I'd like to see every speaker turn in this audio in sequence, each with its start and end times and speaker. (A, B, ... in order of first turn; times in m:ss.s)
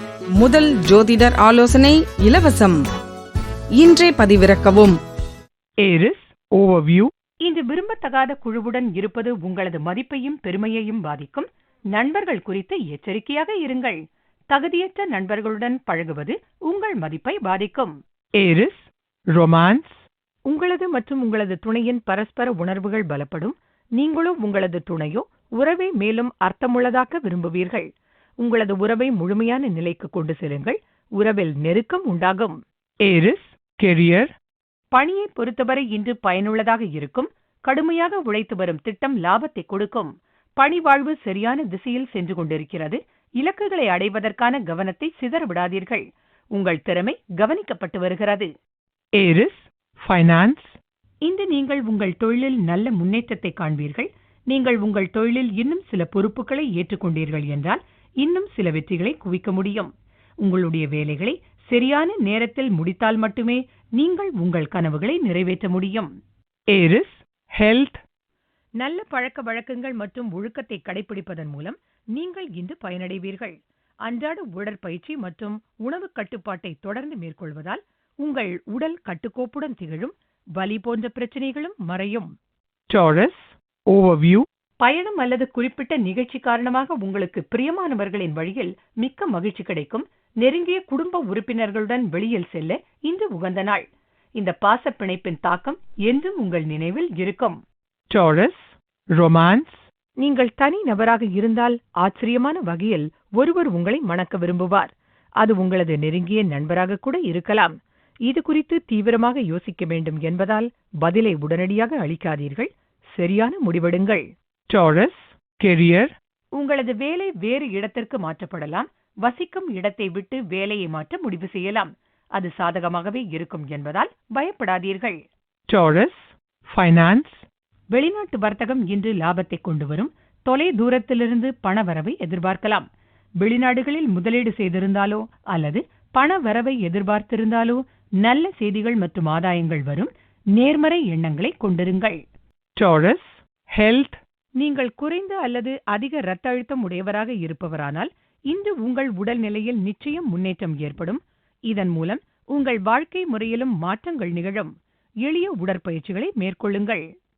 0:00.3-0:02.8 A
0:03.8-0:05.0 A
0:05.8-0:07.1 B
0:07.4-0:14.0 C
0:14.5-0:18.0 C
0:18.4-0:20.0 B
0:20.5-0:27.9 C
0:28.4-0:32.6 C
0:33.0-0:34.3 B
0:34.9-0:46.0 C
0:46.5-0:48.5 C
0:49.2-0:50.8 B
0:51.2-0:59.9 C
1:00.4-1:06.1 C
1:06.7-1:08.0 B
1:08.8-1:22.3 C
1:22.9-1:24.4 B
1:24.8-1:33.8 C
1:34.4-1:37.6 C
1:38.1-1:39.8 B
1:40.2-1:47.7 C
1:48.3-1:54.2 C
1:54.7-1:56.1 B
1:56.6-2:05.2 C
2:05.7-2:07.4 B
2:07.9-2:12.8 C
2:13.4-2:22.2 C
2:22.8-2:24.2 B
2:24.6-2:34.7 C
2:35.2-2:37.0 C